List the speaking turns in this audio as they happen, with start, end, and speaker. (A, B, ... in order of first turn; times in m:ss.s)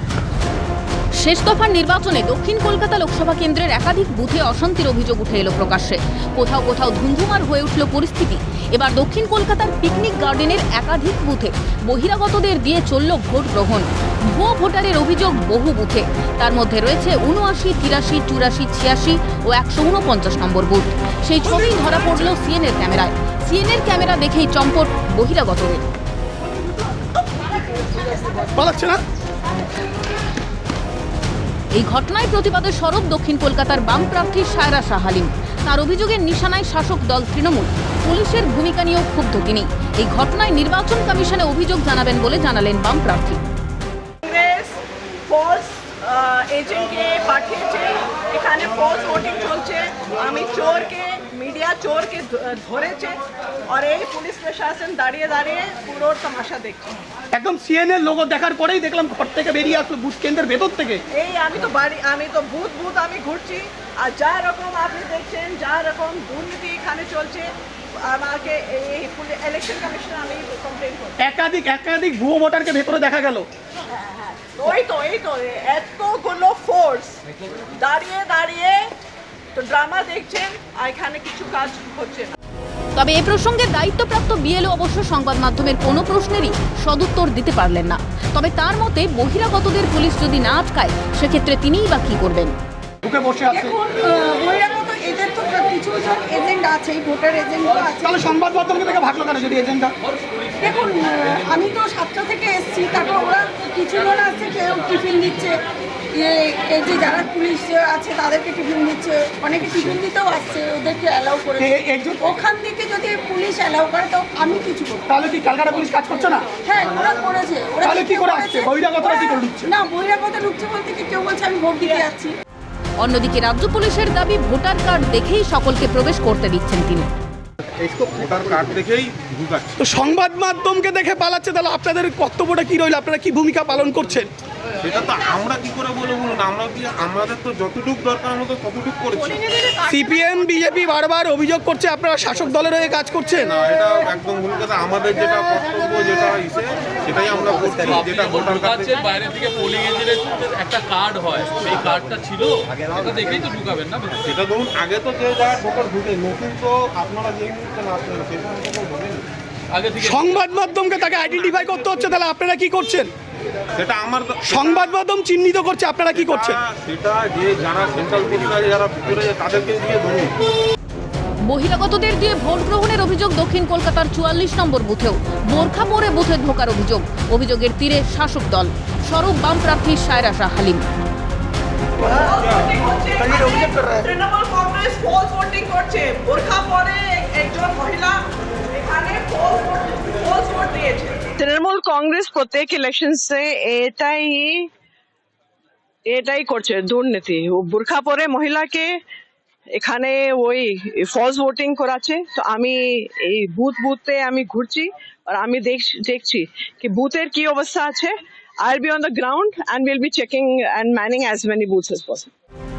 0:01.2-0:25.8 A
0:21.6-0:22.0 B
0:28.4-0:29.0 B
0:31.7-0:43.4 A
0:44.2-0:56.9 C
0:57.3-1:01.0 B
1:01.1-1:07.5 C
1:08.0-1:11.2 C
1:11.2-1:13.5 B
1:13.9-1:17.2 C
1:17.7-1:18.9 C
1:19.5-1:22.3 C
1:23.0-1:32.6 A
1:33.0-1:33.8 B
1:33.5-1:38.2 D
1:38.0-1:40.0 B
1:40.6-1:45.6 D
1:46.1-1:55.1 D
1:51.6-1:52.3 B
1:55.1-1:56.5 B
1:56.6-2:02.3 D
1:57.8-1:59.7 B
2:03.0-2:07.1 A
2:07.8-2:09.8 E
2:09.8-2:14.3 B
2:14.8-2:19.4 E
2:19.2-2:20.4 C
2:19.9-2:23.5 B
2:23.4-2:29.0 E
2:29.0-2:34.2 F
2:34.2-2:39.3 E
2:40.0-2:43.1 B
2:43.7-2:44.8 E
2:44.5-2:46.6 B
2:46.1-2:50.4 E
2:51.5-3:00.8 A
3:02.0-3:14.7 C
3:03.2-3:04.0 B
3:16.1-3:18.9 C
3:19.8-3:32.3 C